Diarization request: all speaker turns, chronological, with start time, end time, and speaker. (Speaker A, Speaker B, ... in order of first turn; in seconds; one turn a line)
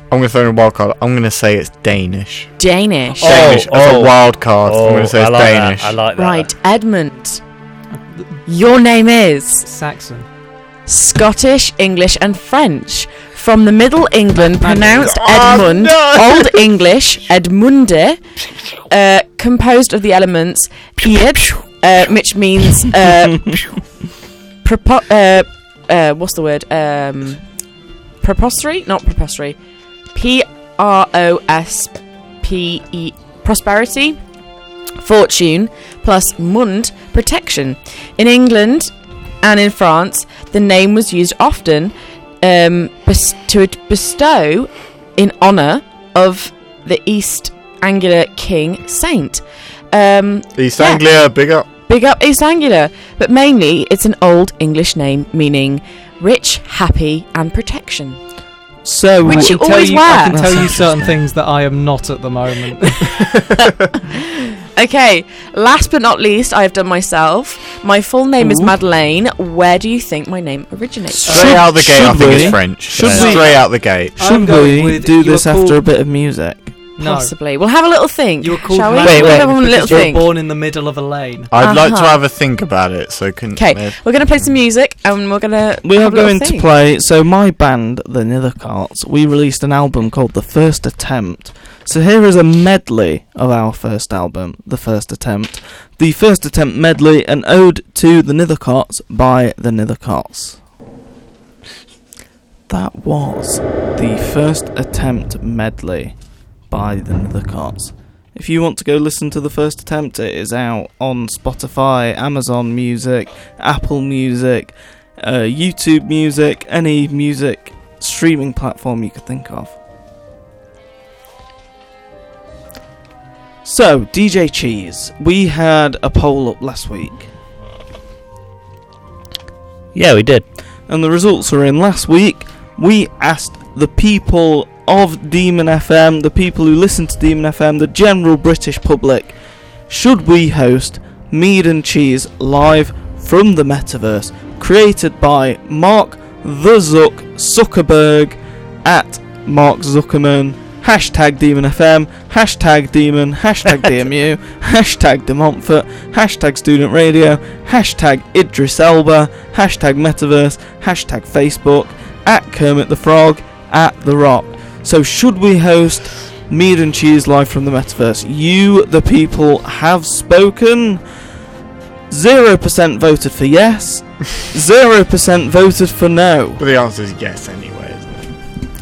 Speaker A: 0.1-2.5
Speaker B: 2.6-3.6
Speaker C: 3.2-6.5
Speaker A: 3.2-6.0
Speaker B: 6.2-7.4
Speaker B: 8.5-9.7
Speaker D: 9.6-10.3
Speaker B: 10.9-18.2
Speaker D: 14.6-15.4
Speaker A: 15.2-16.4
Speaker B: 18.9-23.7
Speaker B: 24.6-27.4
Speaker B: 28.2-29.6
Speaker B: 30.1-34.2
Speaker B: 35.0-51.0
Speaker A: 50.6-51.7
Speaker B: 51.9-58.2
Speaker E: 58.8-59.6
Speaker B: 59.2-60.7
Speaker D: 59.2-63.4
Speaker E: 60.3-61.2
Speaker B: 63.9-71.5
Speaker E: 68.4-68.7
Speaker E: 71.1-73.5
Speaker A: 71.3-74.2
Speaker D: 71.3-71.6
Speaker D: 72.3-73.6
Speaker C: 73.0-73.4
Speaker D: 74.2-75.8
Speaker E: 74.2-76.8
Speaker D: 77.0-77.3
Speaker B: 77.0-80.3
Speaker D: 78.4-81.5
Speaker E: 79.0-80.0
Speaker A: 81.5-84.0
Speaker B: 81.6-82.2
Speaker B: 83.5-86.7
Speaker E: 85.8-100.6
Speaker E: 102.7-106.2
Speaker E: 106.7-119.8
Speaker E: 123.7-127.3
Speaker C: 129.9-130.4
Speaker E: 130.9-139.4
Speaker E: 139.9-171.0
Speaker E: 172.1-176.6
Speaker A: 176.6-178.3